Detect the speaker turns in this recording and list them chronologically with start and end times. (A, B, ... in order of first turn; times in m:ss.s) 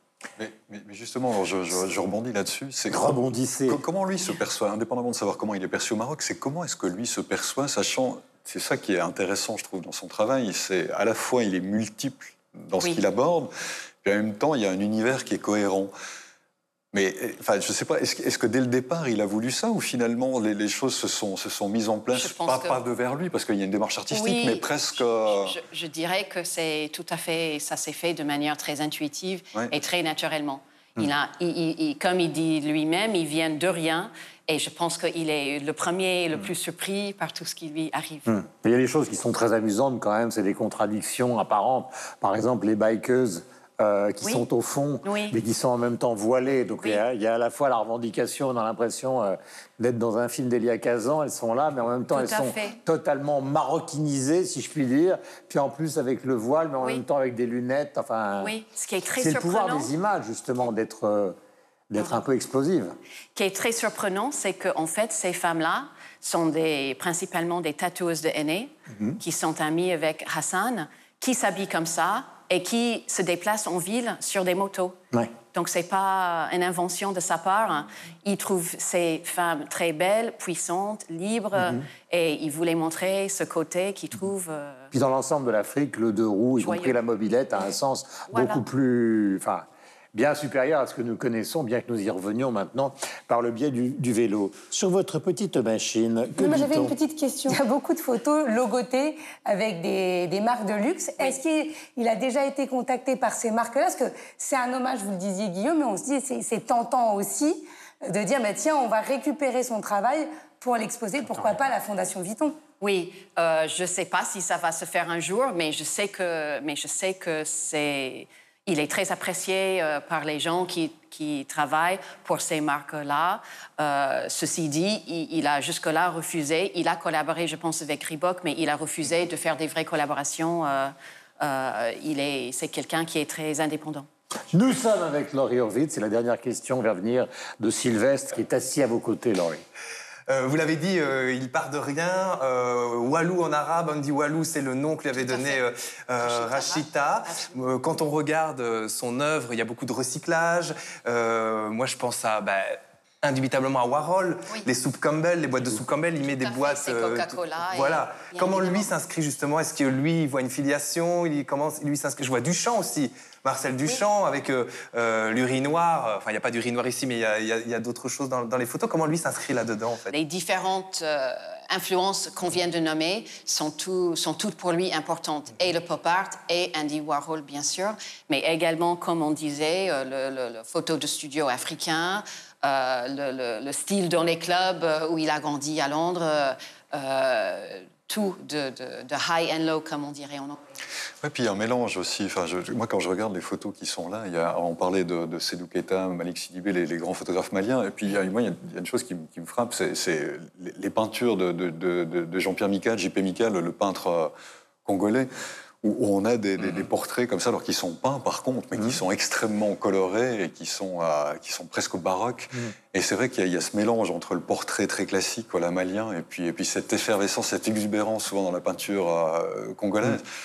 0:00.4-0:03.2 A
0:02.9-0:03.8 B
0:03.7-0:13.5 A
0:14.0-0:15.9 A
0:16.9-0:25.6 A
0:22.1-0:22.8 C
0:24.1-0:38.4 C
0:38.3-0:58.5 B
0:45.0-0:45.4 C
0:52.1-0:52.8 C
0:58.4-0:59.9 C
0:59.2-1:01.4 B
1:01.9-1:02.9 B
1:03.3-1:24.9 C
1:08.9-1:09.2 B
1:21.6-1:21.9 B
1:24.9-1:36.9 B
1:26.6-1:27.0 C
1:28.3-1:28.6 C
1:36.4-1:52.6 D
1:52.8-2:14.1 C
2:14.5-2:19.6 B
2:20.3-2:50.1 E
2:25.2-2:25.6 C
2:26.2-2:27.6 C
2:36.2-2:38.9 C
2:50.1-3:10.6 C
3:11.2-3:24.3 A
3:24.8-3:25.3 A
3:25.8-3:40.2 A